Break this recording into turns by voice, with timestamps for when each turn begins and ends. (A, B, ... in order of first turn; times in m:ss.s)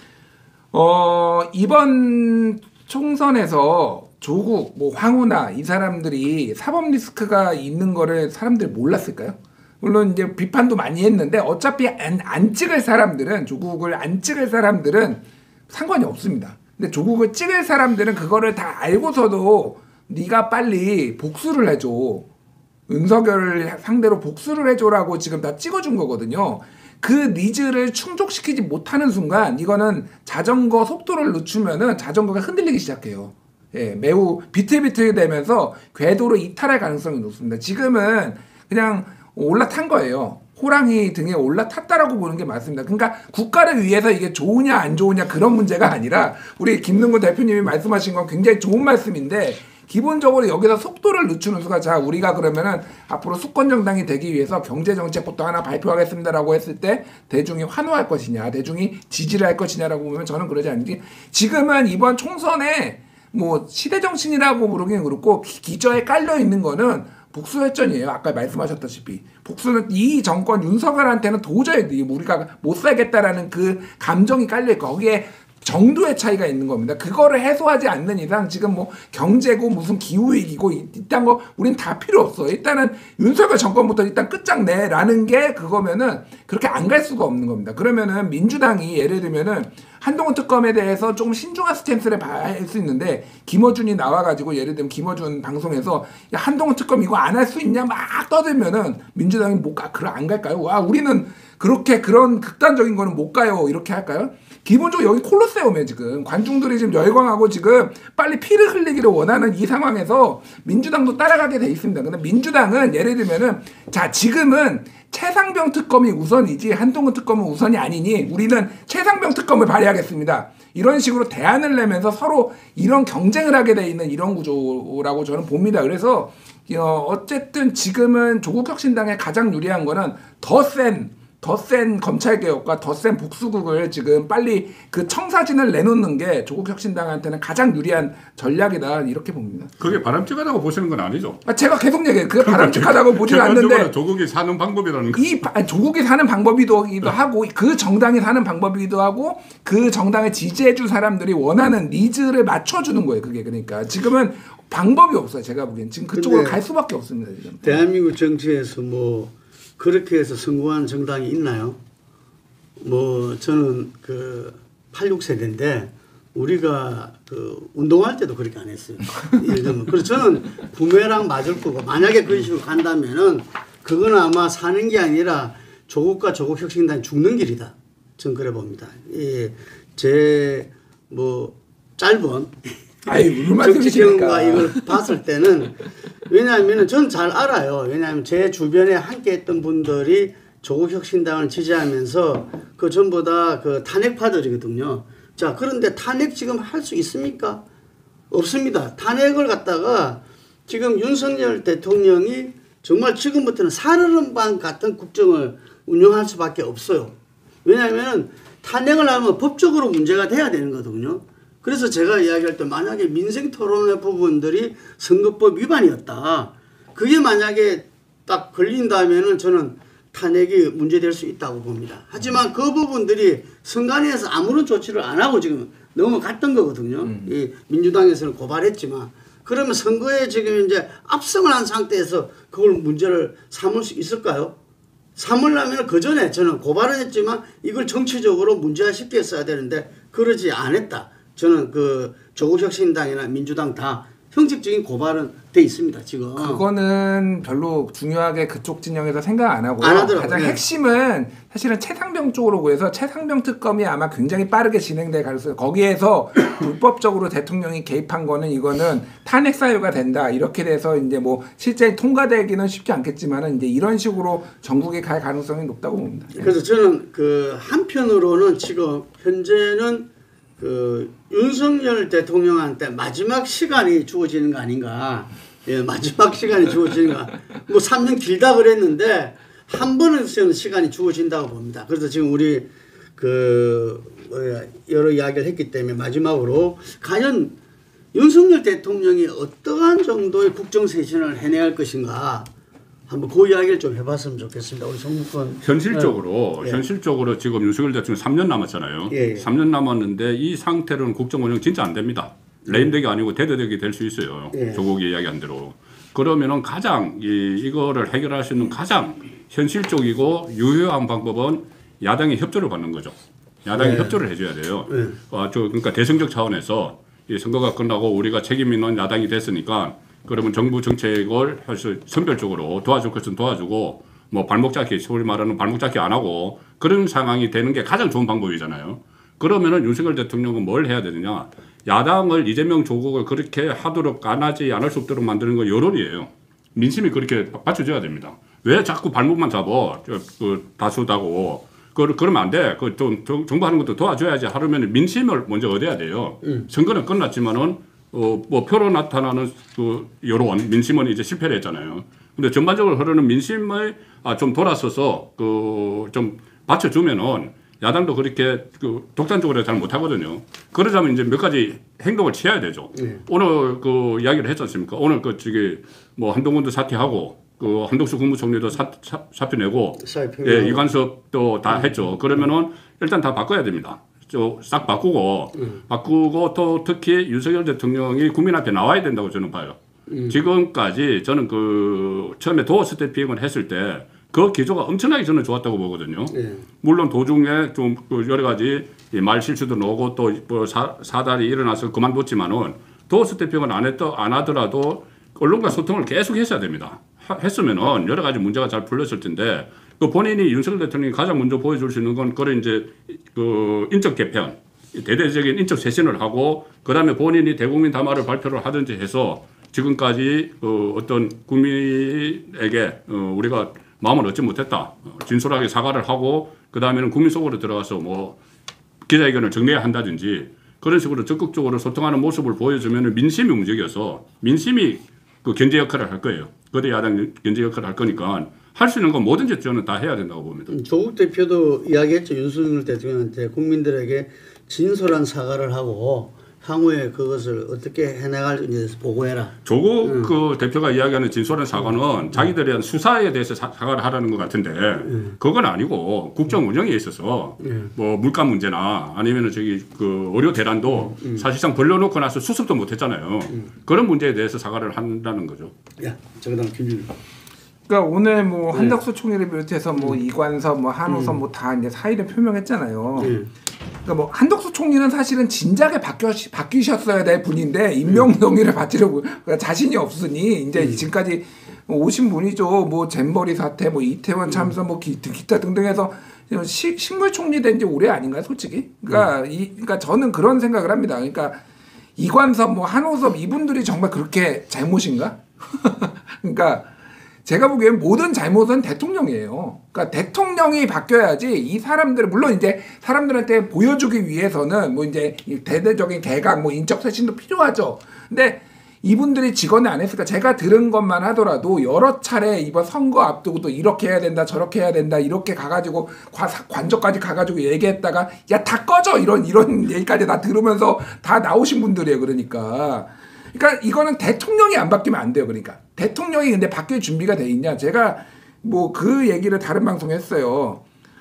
0:00.7-0:22.3 A
0:22.9-2:20.0 A
2:19.8-2:21.4 B
2:21.4-2:23.9 A
2:22.4-2:25.2 B
2:25.1-2:37.8 A
2:36.1-2:36.6 C
2:37.6-2:41.8 C
2:42.8-3:17.6 C
3:03.0-3:04.8 A
3:18.3-3:54.6 C
3:47.0-3:47.3 A
3:55.2-4:06.6 C
4:06.4-4:26.5 A
4:09.8-4:10.6 C
4:26.3-4:47.6 C
4:48.1-4:52.5 C
4:53.1-4:56.8 C
4:55.6-6:19.8 B
4:59.1-4:59.4 C
5:02.7-5:02.9 C
5:04.5-5:04.8 C
5:13.7-5:14.2 C
5:14.9-5:15.2 C
6:03.0-6:03.2 C
6:10.0-6:10.9 C
6:20.1-6:20.4 C
6:20.3-6:58.4 B
6:26.3-6:26.6 C
6:59.0-7:10.7 B
7:10.7-7:20.3 C
7:19.6-7:35.7 B
7:25.0-7:25.4 C
7:27.6-7:27.9 C
7:30.9-7:31.4 C
7:36.0-7:37.1 C
7:37.9-7:43.4 A
7:38.7-7:39.0 C
7:41.0-7:41.4 C
7:43.2-7:43.5 C
7:44.0-8:01.6 A
7:50.8-7:51.0 C
8:02.2-8:06.9 A
8:07.4-8:40.8 A